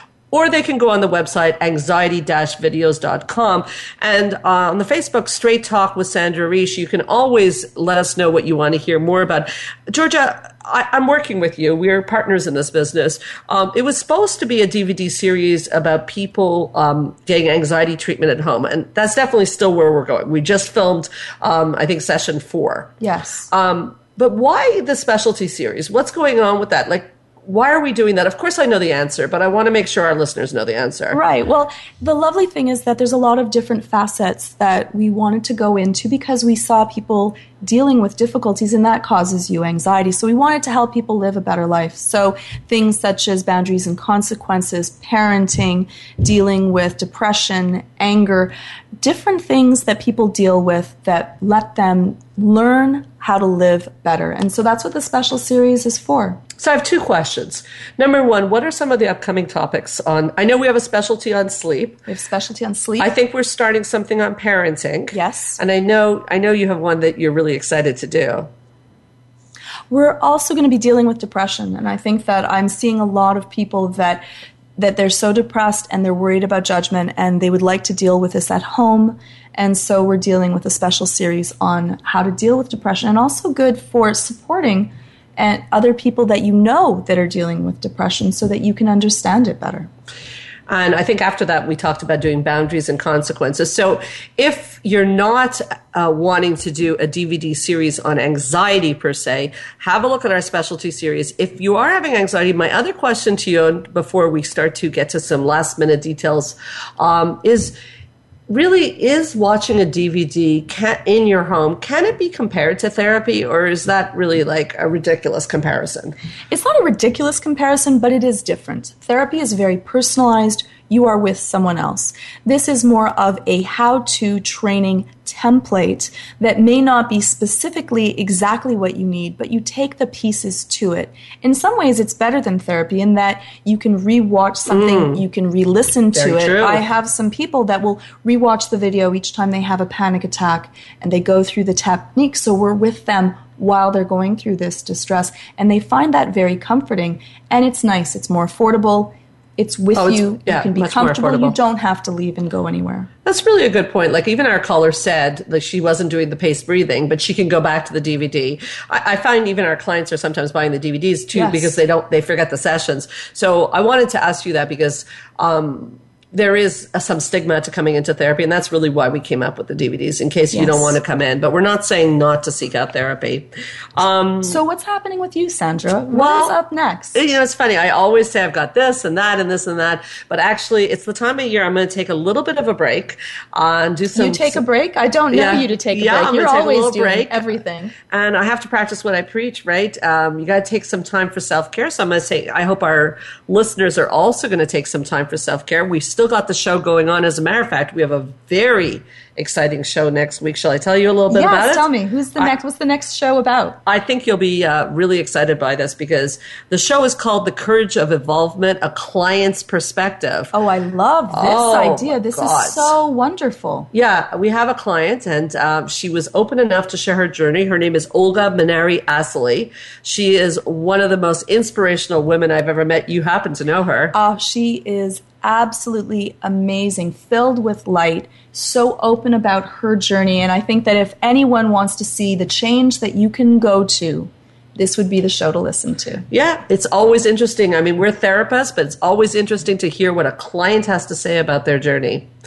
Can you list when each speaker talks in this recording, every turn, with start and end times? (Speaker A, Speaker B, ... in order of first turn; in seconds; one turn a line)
Speaker A: 0.3-22.9
Speaker B: 23.0-23.5
Speaker A: 23.5-31.2
Speaker B: 31.1-56.4
Speaker A: 56.6-62.0
Speaker B: 62.1-63.1
Speaker A: 63.0-68.5
Speaker B: 65.1-65.6
Speaker B: 69.9-74.2
Speaker B: 74.8-89.9
Speaker A: 90.7-107.8
Speaker A: 108.5-116.2
Speaker B: 116.5-153.1
Speaker A: 134.7-135.2
Speaker A: 136.2-136.8
Speaker A: 149.9-151.6
Speaker A: 153.2-174.6
Speaker B: 161.3-161.8
Speaker B: 170.5-171.0
Speaker B: 174.4-177.2
Speaker A: 176.1-176.6
Speaker A: 177.1-184.6
Speaker B: 184.1-187.9
Speaker A: 185.3-187.6
Speaker A: 188.1-202.5
Speaker B: 201.3-203.8
Speaker A: 203.9-210.5
Speaker B: 210.5-213.9
Speaker A: 211.3-213.0
Speaker A: 213.9-224.2
Speaker B: 224.1-236.2
Speaker A: 236.3-242.3